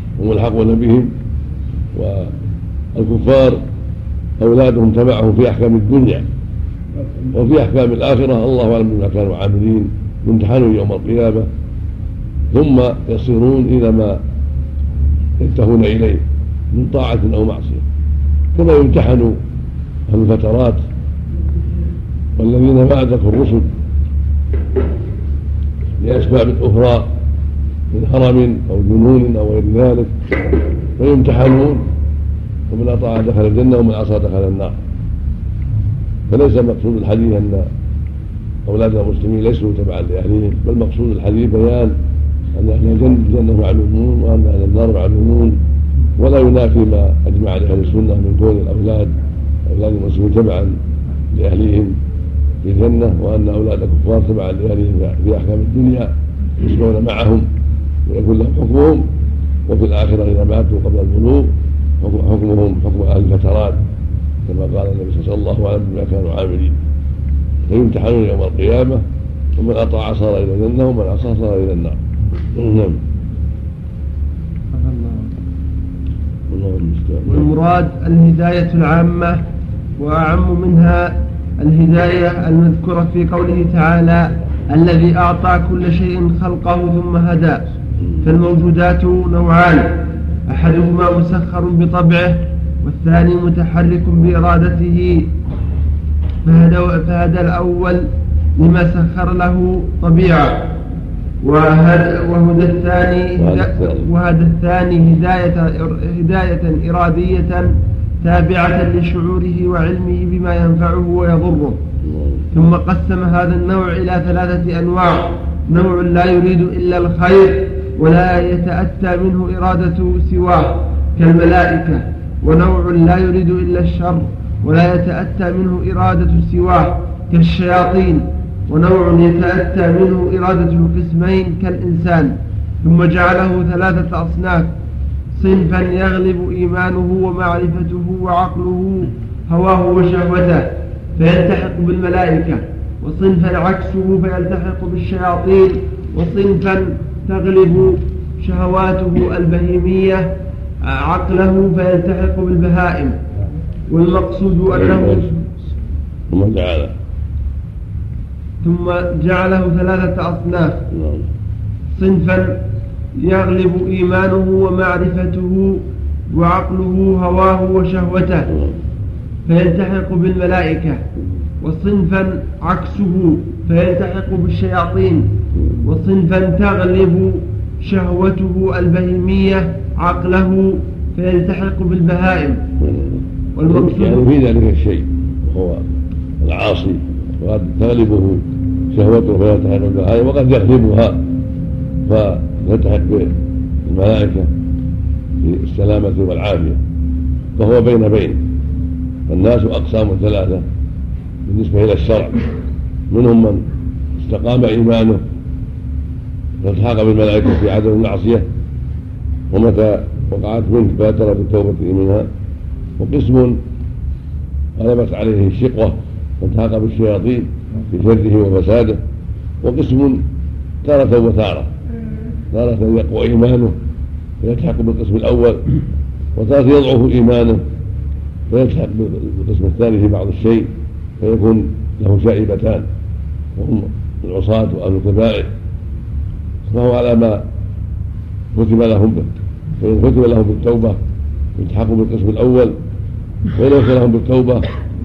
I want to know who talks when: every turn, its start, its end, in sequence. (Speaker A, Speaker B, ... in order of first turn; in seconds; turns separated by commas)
Speaker A: 0.2-1.1, Speaker A: 1.9-2.3, Speaker A: 3.0-3.6, Speaker A: 4.4-6.3, Speaker A: 7.3-11.5, Speaker A: 12.5-14.2, Speaker A: 15.4-17.9, Speaker A: 18.6-19.4, Speaker A: 20.1-20.9, Speaker A: 22.4-23.7, Speaker A: 26.0-27.1, Speaker A: 27.9-30.1, Speaker A: 31.0-31.8, Speaker A: 32.7-34.8, Speaker A: 36.3-37.7, Speaker A: 38.7-42.0, Speaker A: 42.5-45.6, Speaker A: 46.2-49.1, Speaker A: 49.7-50.8, Speaker A: 51.3-52.0, Speaker A: 52.6-57.5, Speaker A: 58.1-59.1, Speaker A: 59.7-63.8, Speaker A: 64.5-66.8, Speaker A: 67.7-69.0, Speaker A: 69.6-72.0, Speaker A: 72.5-73.0, Speaker B: 74.7-75.3, Speaker A: 76.5-77.5, Speaker B: 77.2-79.4, Speaker B: 80.0-87.6, Speaker B: 88.2-90.0, Speaker B: 90.5-95.3, Speaker B: 96.5-100.7, Speaker B: 101.4-111.8, Speaker A: 103.4-104.1, Speaker A: 112.0-112.5, Speaker B: 112.5-134.7, Speaker B: 135.4-150.3, Speaker B: 150.8-153.2, Speaker B: 153.9-155.3, Speaker A: 154.7-155.2, Speaker A: 156.3-156.9, Speaker B: 158.6-160.8, Speaker A: 160.9-161.3, Speaker B: 162.0-162.6, Speaker B: 163.2-165.8, Speaker B: 166.3-168.5, Speaker B: 169.5-171.0, Speaker B: 171.6-175.3, Speaker B: 175.8-182.6, Speaker A: 182.8-183.1, Speaker B: 183.6-184.2, Speaker A: 183.7-185.9, Speaker A: 186.4-191.2, Speaker A: 192.1-193.3, Speaker A: 193.9-194.5, Speaker A: 195.4-196.8, Speaker A: 197.6-198.4, Speaker A: 199.3-200.7, Speaker A: 201.5-202.4, Speaker A: 203.1-203.6, Speaker A: 204.2-205.2, Speaker A: 206.6-208.5, Speaker A: 209.5-212.3, Speaker A: 213.0-213.6, Speaker A: 214.8-219.0, Speaker A: 219.6-220.2, Speaker A: 220.8-221.7, Speaker A: 222.5-223.8, Speaker A: 224.4-225.6, Speaker A: 226.4-227.6, Speaker A: 228.5-232.9, Speaker A: 233.6-235.5, Speaker A: 236.7-237.4, Speaker A: 238.5-241.0, Speaker A: 241.6-242.8, Speaker A: 243.6-244.7